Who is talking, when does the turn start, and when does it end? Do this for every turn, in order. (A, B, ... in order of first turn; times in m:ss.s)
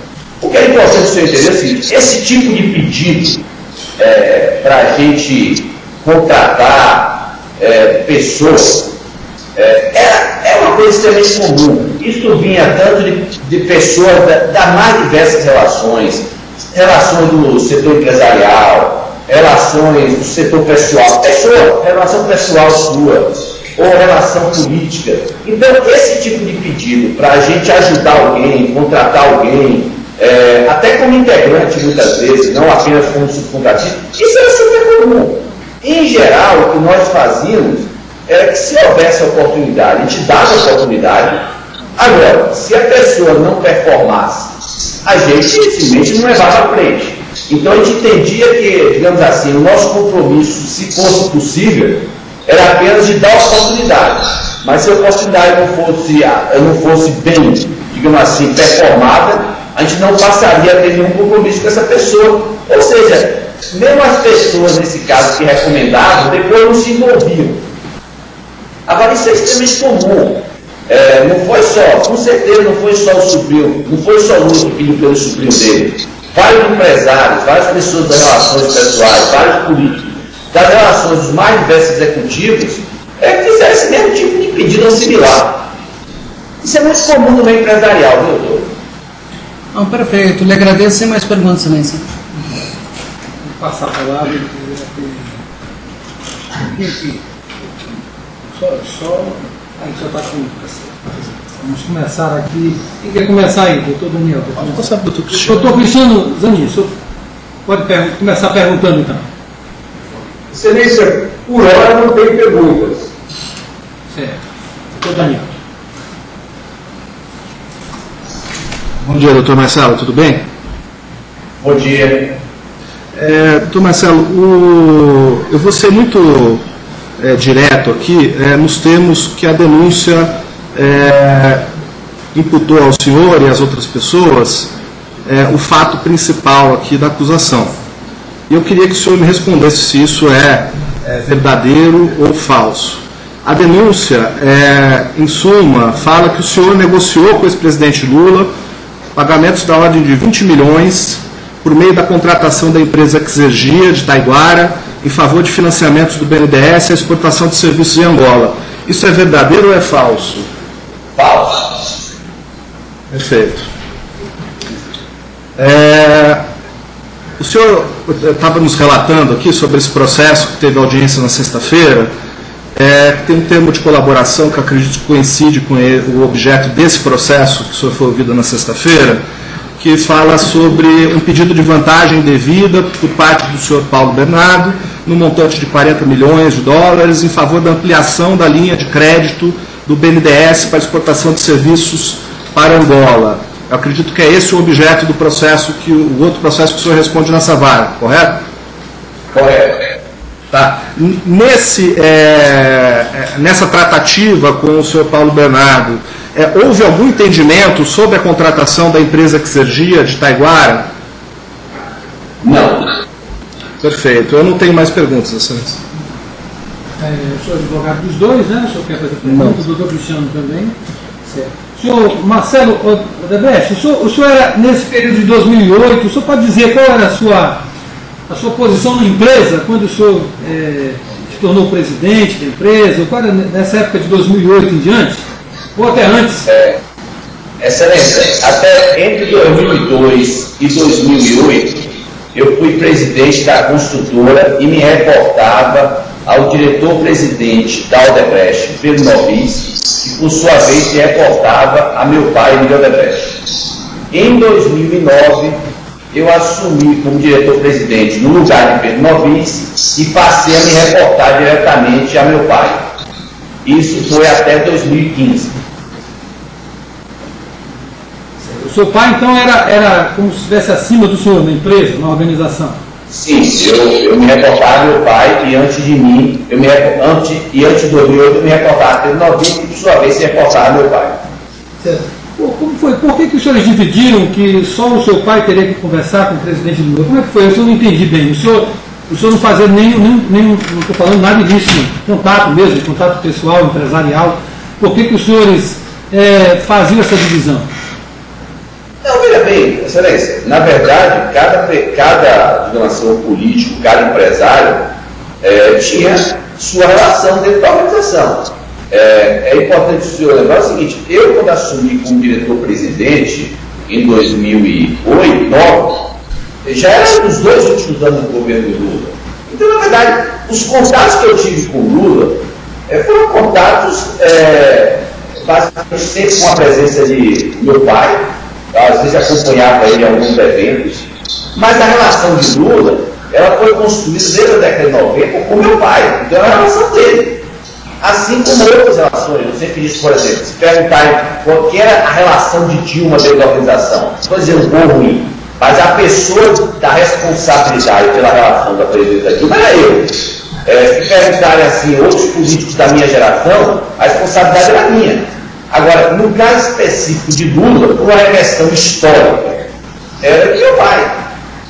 0:00.4-0:03.4 A
0:04.0-0:08.9 A
0:09.6-0:41.4 A
0:42.0-1:07.6 A
1:08.9-1:25.7 A
1:26.6-1:28.7 A
1:29.7-1:32.1 B
1:33.4-1:35.3 C
1:36.7-1:37.2 C
1:38.6-1:46.9 C
1:44.6-1:45.7 D
1:47.7-1:49.3 C
1:50.5-1:53.1 E
1:54.1-1:54.4 C
1:55.0-1:55.5 C
1:59.0-2:00.5 D
2:01.6-2:02.4 A
2:03.1-2:06.6 D
2:07.2-2:11.7 D
2:12.3-2:14.7 D
2:15.3-2:17.8 D
2:18.5-2:28.5 D
2:29.2-2:40.5 D
2:41.2-2:41.9 A
2:43.1-2:43.7 D
2:45.6-2:46.4 D
2:47.4-2:52.1 D
2:52.8-2:59.2 D
2:59.8-3:18.4 D
3:19.3-3:19.9 A
3:20.5-3:30.9 D
3:32.4-3:32.9 A
3:33.8-3:35.8 D
3:37.0-3:40.8 C
3:39.2-3:39.6 D
3:41.3-3:47.6 C
3:48.3-3:55.2 C
3:55.8-3:56.5 C
3:56.5-3:56.8 A
3:57.6-4:13.5 A
4:14.1-4:22.8 A
4:23.6-4:25.6 A
4:28.4-4:32.8 C
4:33.1-4:41.2 A
4:41.8-4:57.7 C
4:59.0-5:04.9 A
5:05.4-5:37.4 A
5:38.0-5:59.6 A
6:00.2-6:01.2 A